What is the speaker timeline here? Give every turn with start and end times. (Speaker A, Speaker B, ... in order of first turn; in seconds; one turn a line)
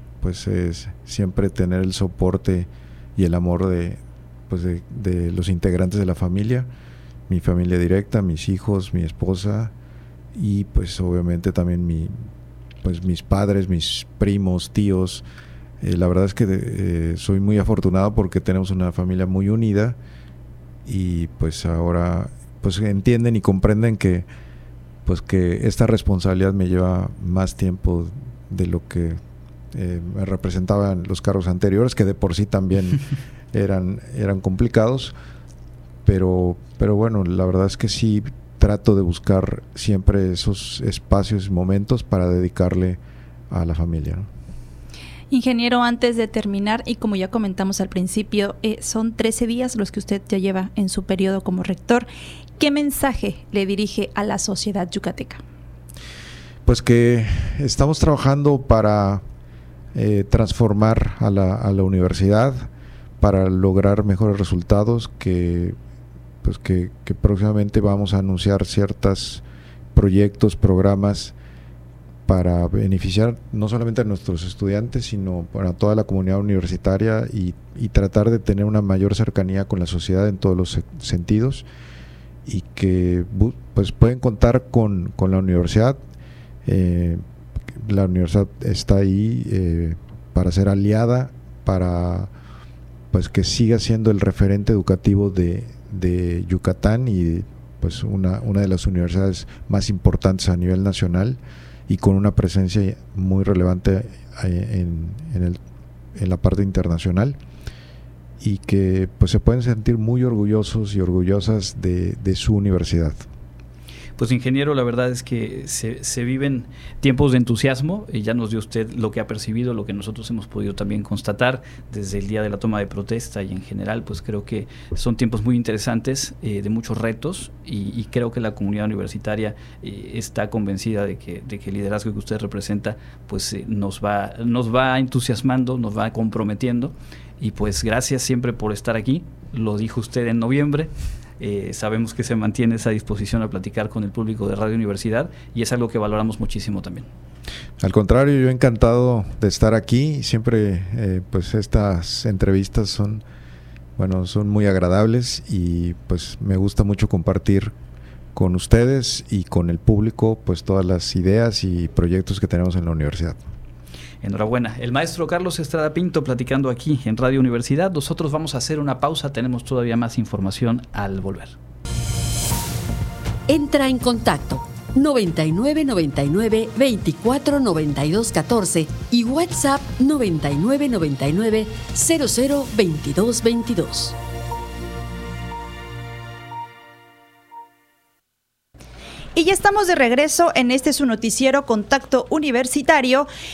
Speaker A: 0.2-6.7
Speaker A: 7.3-9.7
Speaker A: 10.3-12.3
Speaker A: 12.8-15.2
Speaker A: 15.8-20.0
Speaker A: 20.9-24.3
Speaker A: 25.1-29.2
Speaker A: 29.7-35.1
Speaker A: 36.1-43.0
Speaker A: 43.5-44.3
Speaker B: 45.3-52.1
Speaker B: 52.6-55.4
Speaker A: 56.6-59.2
Speaker A: 59.9-62.7
Speaker A: 63.2-65.8
Speaker A: 66.4-69.4
Speaker A: 69.9-71.3
Speaker A: 72.3-81.7
Speaker A: 82.5-86.0
Speaker A: 86.6-87.2
Speaker A: 87.8-92.3
Speaker A: 93.1-105.6
Speaker A: 106.2-107.4
Speaker A: 108.4-113.2
Speaker C: 114.2-147.1
Speaker A: 147.8-153.2
Speaker A: 154.0-157.7
Speaker A: 158.3-163.4
Speaker C: 164.2-171.6
Speaker D: 173.5-184.2
Speaker B: 189.3-193.3